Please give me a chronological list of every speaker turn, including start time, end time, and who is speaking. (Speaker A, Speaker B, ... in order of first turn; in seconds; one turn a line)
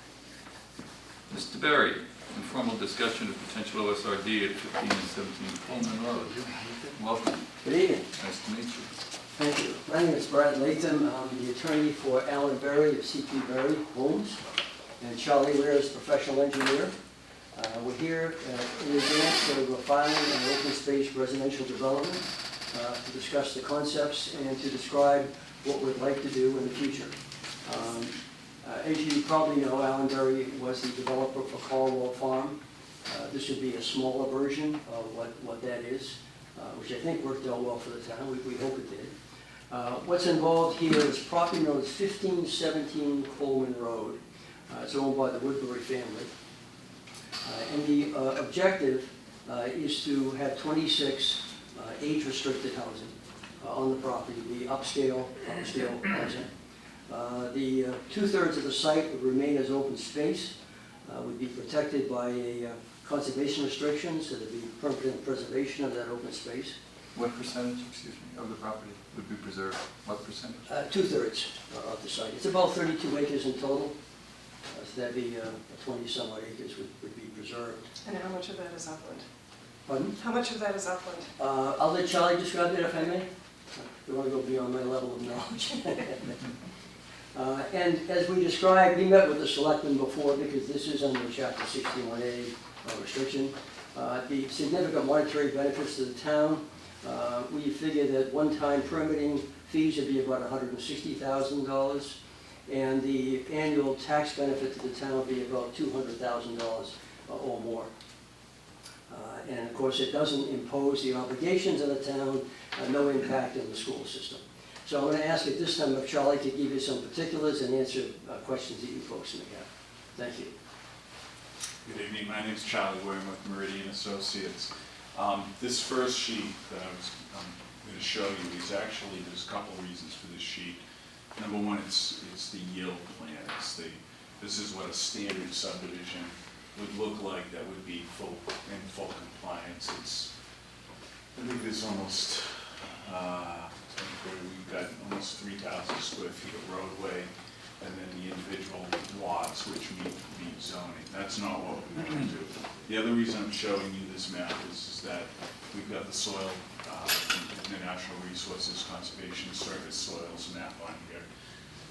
Speaker A: 1.3-7.5
Speaker B: 7.6-8.1
Speaker A: 8.2-9.0
Speaker B: 9.3-14.4
Speaker B: 15.0-16.9
Speaker B: 17.5-39.1
Speaker B: 39.7-46.3
Speaker B: 47.4-56.5
Speaker B: 57.1-60.5
Speaker B: 61.0-66.8
Speaker A: 67.1-70.6
Speaker B: 70.7-74.0
Speaker B: 74.7-77.9
Speaker C: 78.0-79.2
Speaker B: 79.9-80.2
Speaker C: 80.1-81.3
Speaker B: 81.4-86.4
Speaker B: 87.3-107.9
Speaker B: 109.1-120.5
Speaker D: 121.8-130.8
Speaker D: 131.3-140.3
Speaker D: 141.3-161.2